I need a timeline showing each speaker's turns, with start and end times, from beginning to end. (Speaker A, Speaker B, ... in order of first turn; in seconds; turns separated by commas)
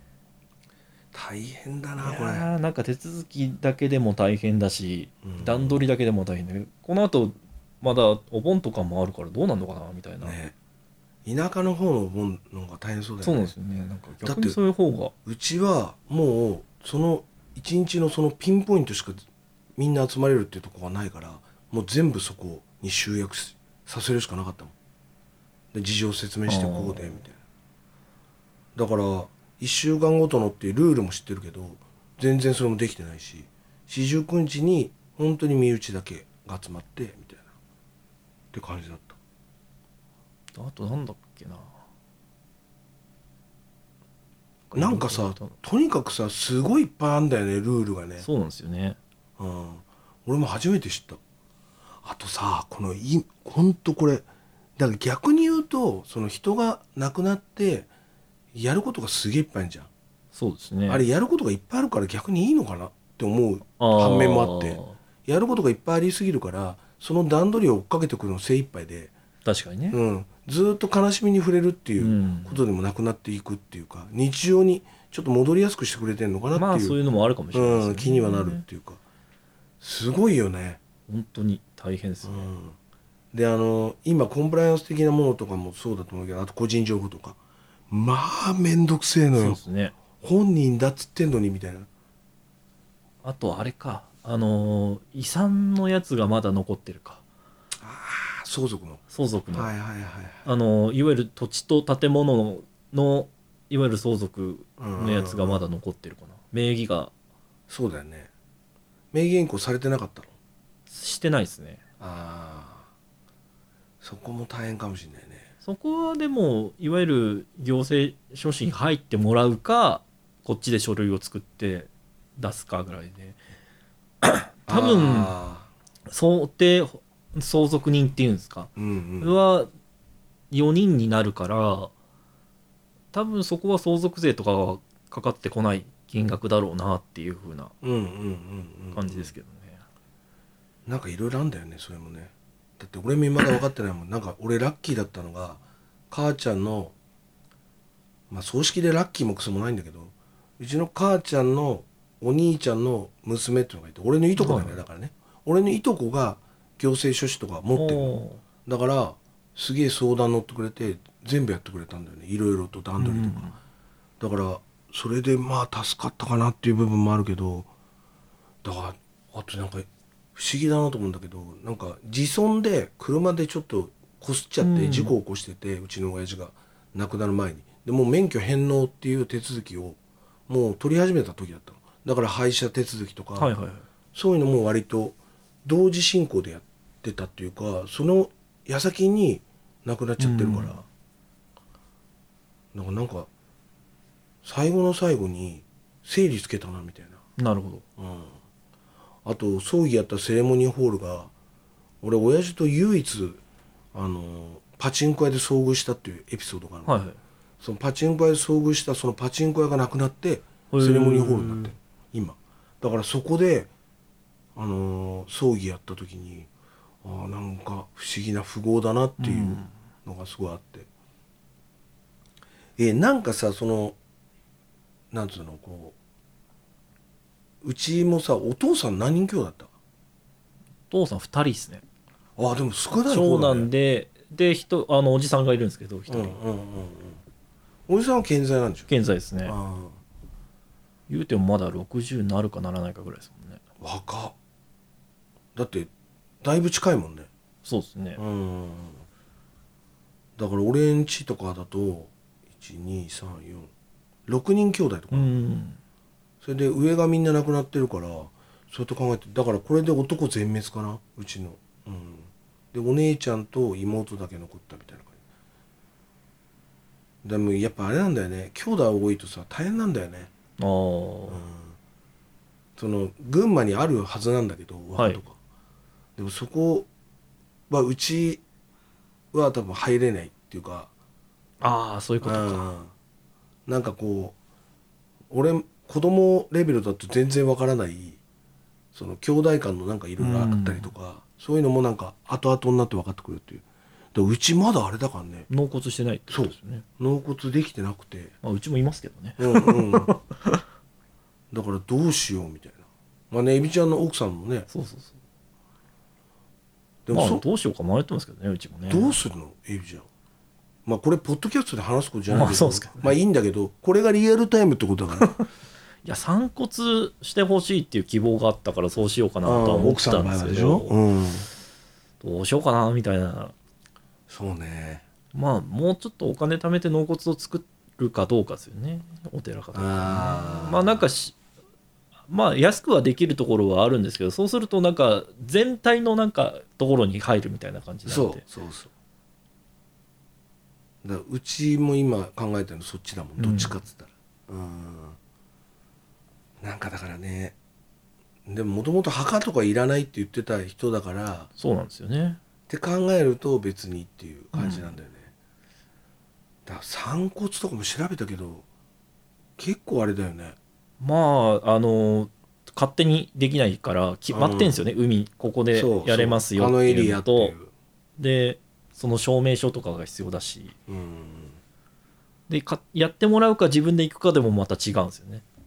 Speaker A: 1.1-2.5, Speaker B: 2.0-10.4, Speaker A: 5.2-5.8, Speaker A: 10.2-10.5, Speaker A: 11.2-13.5, Speaker B: 13.2-15.1, Speaker A: 14.2-14.6, Speaker A: 15.2-19.2, Speaker A: 19.8-24.7, Speaker A: 25.7-27.4, Speaker B: 26.5-27.2, Speaker A: 28.8-37.5, Speaker A: 38.5-39.2, Speaker B: 40.5-41.7, Speaker B: 44.7-45.5, Speaker A: 44.7-48.3, Speaker B: 48.2-49.0, Speaker A: 49.4-51.2, Speaker A: 52.0-54.3, Speaker A: 54.8-57.9, Speaker A: 58.5-59.9, Speaker B: 60.3-61.1, Speaker A: 60.9-69.1, Speaker B: 63.8-65.0, Speaker B: 69.4-70.0, Speaker A: 69.9-79.0, Speaker B: 72.0-72.6, Speaker B: 76.5-78.6, Speaker A: 79.8-80.8, Speaker B: 81.1-82.5, Speaker A: 82.2-82.8, Speaker A: 83.3-87.4, Speaker A: 87.9-89.6, Speaker B: 89.4-90.0, Speaker A: 90.2-91.9, Speaker B: 93.2-97.2, Speaker A: 97.8-99.0, Speaker B: 99.1-99.7, Speaker A: 99.5-100.5, Speaker B: 100.5-107.1, Speaker A: 104.8-105.6, Speaker A: 107.7-108.3, Speaker A: 109.1-110.3, Speaker B: 110.9-111.8, Speaker A: 112.0-112.9, Speaker A: 114.0-115.5, Speaker B: 115.6-123.4, Speaker B: 124.2-125.3, Speaker A: 124.7-125.7, Speaker B: 126.1-129.7, Speaker A: 128.8-129.4, Speaker B: 130.5-131.9, Speaker B: 133.1-137.7, Speaker A: 137.8-139.3, Speaker B: 138.9-139.8, Speaker A: 140.9-146.9, Speaker A: 148.3-163.5, Speaker B: 154.4-154.8, Speaker B: 157.8-158.4, Speaker B: 163.0-163.6, Speaker A: 164.2-167.7, Speaker A: 168.6-180.0, Speaker B: 174.6-175.2, Speaker A: 180.5-183.5, Speaker B: 183.4-183.9, Speaker A: 184.1-190.8, Speaker B: 190.2-190.8, Speaker A: 192.7-193.3, Speaker A: 194.4-197.2, Speaker B: 197.4-197.8, Speaker A: 198.0-198.4, Speaker A: 199.2-201.3, Speaker A: 202.0-203.4, Speaker A: 203.9-207.0, Speaker B: 206.9-207.2, Speaker A: 207.6-213.7, Speaker B: 210.7-211.7, Speaker A: 214.6-216.5, Speaker A: 217.0-220.9, Speaker B: 219.2-219.7, Speaker A: 222.8-224.0, Speaker A: 225.1-226.0, Speaker A: 227.6-229.7, Speaker B: 230.9-231.8, Speaker A: 232.4-233.7, Speaker B: 233.1-236.4, Speaker A: 236.1-237.2, Speaker A: 237.9-238.9, Speaker B: 238.9-239.6, Speaker A: 239.4-240.0, Speaker B: 241.1-243.6, Speaker A: 243.8-244.3, Speaker A: 245.6-245.9, Speaker A: 246.4-247.3, Speaker B: 247.6-248.2, Speaker A: 248.2-249.0, Speaker A: 250.4-253.7, Speaker A: 254.3-255.3, Speaker B: 255.1-255.8, Speaker A: 256.4-265.2, Speaker A: 267.2-270.3, Speaker B: 270.6-271.4, Speaker A: 271.3-271.8, Speaker A: 272.8-275.4, Speaker B: 275.0-275.2, Speaker A: 276.2-276.9, Speaker A: 277.7-278.4, Speaker A: 279.3-280.9, Speaker B: 281.6-282.7, Speaker A: 282.2-282.9, Speaker A: 283.7-284.4, Speaker A: 285.3-288.2, Speaker A: 288.9-295.5, Speaker B: 290.2-290.9, Speaker B: 295.5-296.9, Speaker A: 296.3-298.3, Speaker B: 298.4-300.6, Speaker A: 299.4-300.1, Speaker A: 301.5-304.7, Speaker B: 304.7-305.2, Speaker A: 307.1-307.4, Speaker B: 307.1-309.2, Speaker A: 308.9-310.1, Speaker A: 310.9-315.3, Speaker B: 312.3-313.2, Speaker B: 316.0-320.9, Speaker A: 319.4-321.5, Speaker B: 322.2-323.5, Speaker A: 324.3-325.1, Speaker B: 325.3-331.4, Speaker A: 329.7-331.1, Speaker B: 332.3-338.4, Speaker A: 338.1-338.9, Speaker A: 341.0-345.2, Speaker B: 343.4-343.8, Speaker A: 346.6-347.6, Speaker A: 348.5-351.5, Speaker B: 351.6-352.4, Speaker A: 352.7-355.3, Speaker B: 354.5-354.9, Speaker A: 356.7-358.7, Speaker A: 359.6-360.6, Speaker B: 361.0-367.6, Speaker A: 364.3-364.8, Speaker A: 365.7-367.7, Speaker B: 368.2-370.8, Speaker A: 370.9-371.6, Speaker B: 372.5-375.4